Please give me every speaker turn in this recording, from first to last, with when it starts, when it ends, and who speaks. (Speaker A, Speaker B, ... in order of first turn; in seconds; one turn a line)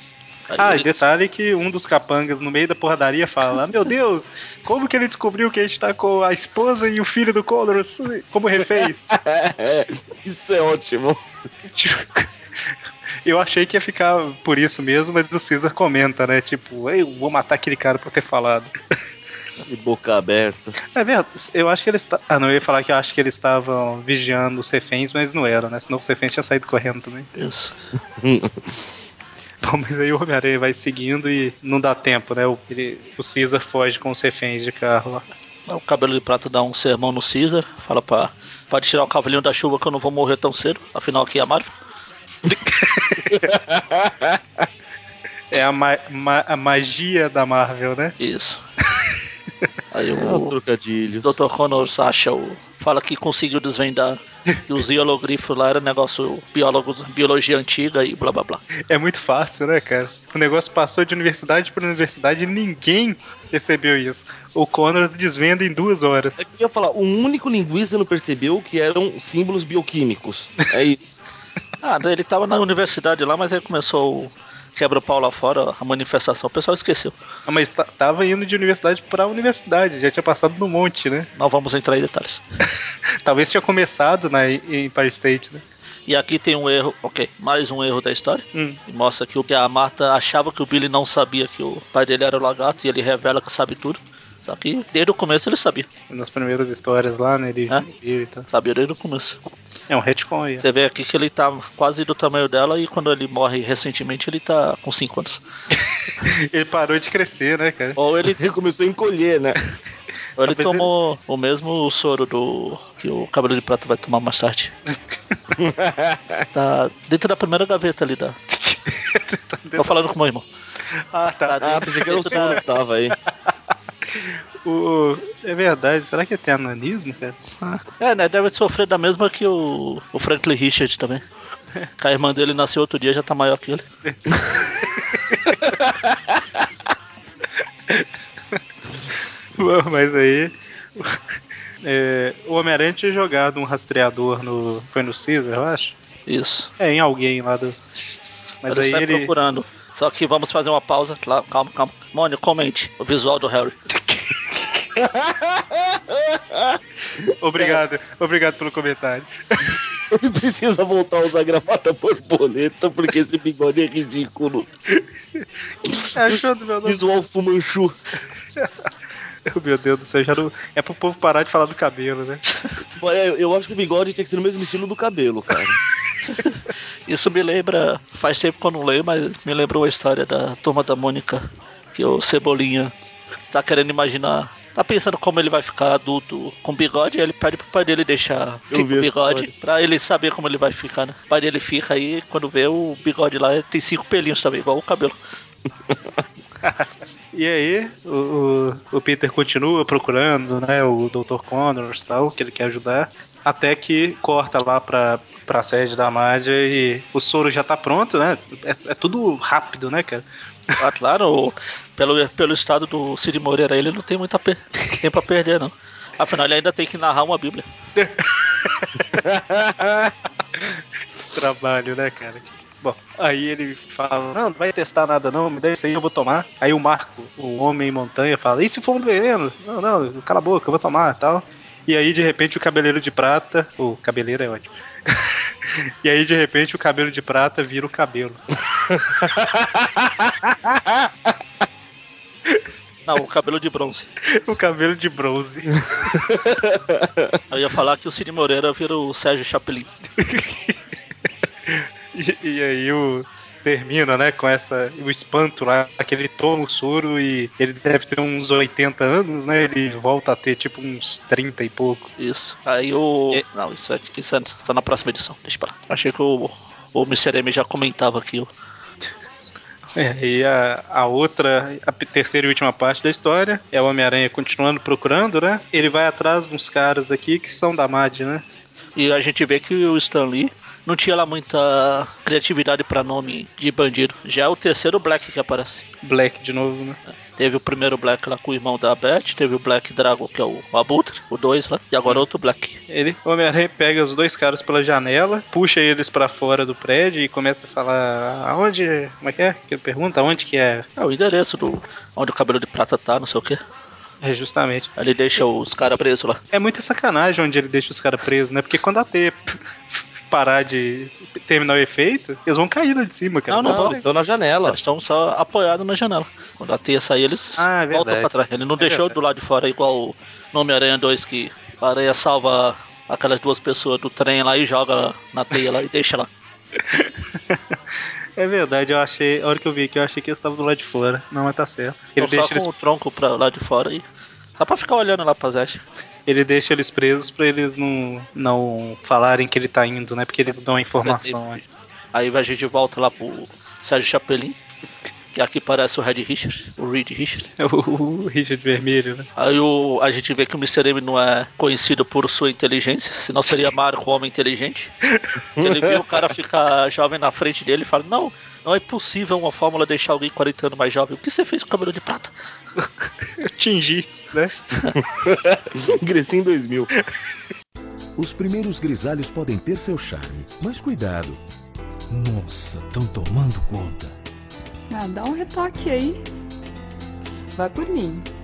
Speaker A: 0.5-1.1
Speaker B: 0.6-9.1
Speaker C: 8.6-11.2
Speaker B: 11.7-12.3
Speaker B: 13.3-18.7
Speaker C: 19.6-20.8
Speaker B: 20.9-27.3
Speaker A: 27.4-27.7
Speaker C: 28.2-28.9
Speaker B: 29.6-35.2
Speaker A: 35.7-41.7
Speaker B: 42.5-43.4
Speaker C: 43.3-44.6
Speaker B: 45.5-48.1
Speaker A: 48.2-48.6
Speaker A: 49.9-50.5
Speaker C: 50.1-51.4
Speaker A: 51.2-58.6
Speaker B: 58.9-66.4
Speaker C: 66.4-71.2
Speaker A: 71.8-77.2
Speaker B: 77.5-81.3
Speaker A: 81.4-82.4
Speaker B: 83.2-85.6
Speaker A: 86.1-95.9
Speaker B: 88.5-88.8
Speaker B: 96.1-98.5
Speaker A: 98.5-99.4
Speaker B: 99.9-100.6
Speaker A: 100.6-105.4
Speaker B: 106.2-108.0
Speaker A: 108.0-108.4
Speaker C: 108.3-109.6
Speaker A: 110.4-114.7
Speaker B: 110.4-110.9
Speaker C: 115.6-116.5
Speaker A: 116.5-118.4
Speaker B: 118.5-120.0
Speaker A: 119.8-120.5
Speaker B: 121.1-122.6
Speaker A: 121.5-122.6
Speaker C: 121.6-123.2
Speaker B: 124.1-127.4
Speaker A: 127.6-131.2
Speaker A: 132.0-133.8
Speaker B: 134.8-135.6
Speaker C: 135.6-136.4
Speaker B: 137.9-138.6
Speaker B: 139.6-141.2
Speaker B: 141.8-145.9
Speaker A: 146.3-146.7
Speaker B: 146.8-147.8
Speaker B: 148.6-149.3
Speaker A: 148.7-153.8
Speaker B: 154.0-154.8
Speaker C: 154.9-157.8
Speaker B: 157.4-159.8
Speaker C: 159.7-164.7
Speaker B: 165.0-165.4
Speaker C: 165.9-167.9
Speaker B: 166.1-167.0
Speaker B: 169.5-172.4
Speaker C: 173.0-175.8
Speaker A: 176.3-182.9
Speaker A: 183.5-195.2
Speaker C: 188.7-189.5
Speaker C: 195.9-196.2
Speaker B: 196.6-210.8
Speaker A: 210.8-217.7
Speaker B: 218.0-219.2
Speaker C: 219.1-220.1
Speaker B: 220.6-238.4
Speaker C: 238.9-241.3
Speaker A: 243.1-244.1
Speaker B: 244.3-245.8
Speaker C: 245.9-247.4
Speaker A: 247.5-249.9
Speaker B: 250.2-250.8
Speaker B: 251.7-262.1
Speaker A: 262.2-268.5
Speaker B: 270.0-278.4
Speaker A: 279.0-285.8
Speaker B: 286.0-287.0
Speaker A: 287.4-292.8
Speaker B: 292.9-300.9
Speaker A: 301.0-303.6
Speaker B: 304.2-304.9
Speaker A: 305.0-306.4
Speaker B: 306.5-314.0
Speaker A: 313.5-314.0
Speaker C: 313.6-314.8
Speaker A: 314.7-326.3
Speaker B: 317.6-319.1
Speaker B: 326.8-327.6
Speaker B: 328.4-332.7
Speaker A: 332.2-334.1
Speaker A: 334.6-335.9
Speaker B: 336.3-341.6
Speaker A: 341.0-341.5
Speaker A: 342.1-344.6
Speaker A: 345.3-347.5
Speaker B: 347.6-349.3
Speaker A: 349.4-354.9
Speaker C: 355.6-356.0
Speaker A: 355.6-362.3
Speaker B: 363.4-364.6
Speaker C: 364.9-366.9
Speaker D: 368.2-371.4
Speaker D: 372.1-374.1
Speaker E: 374.9-376.2
Speaker E: 377.6-378.3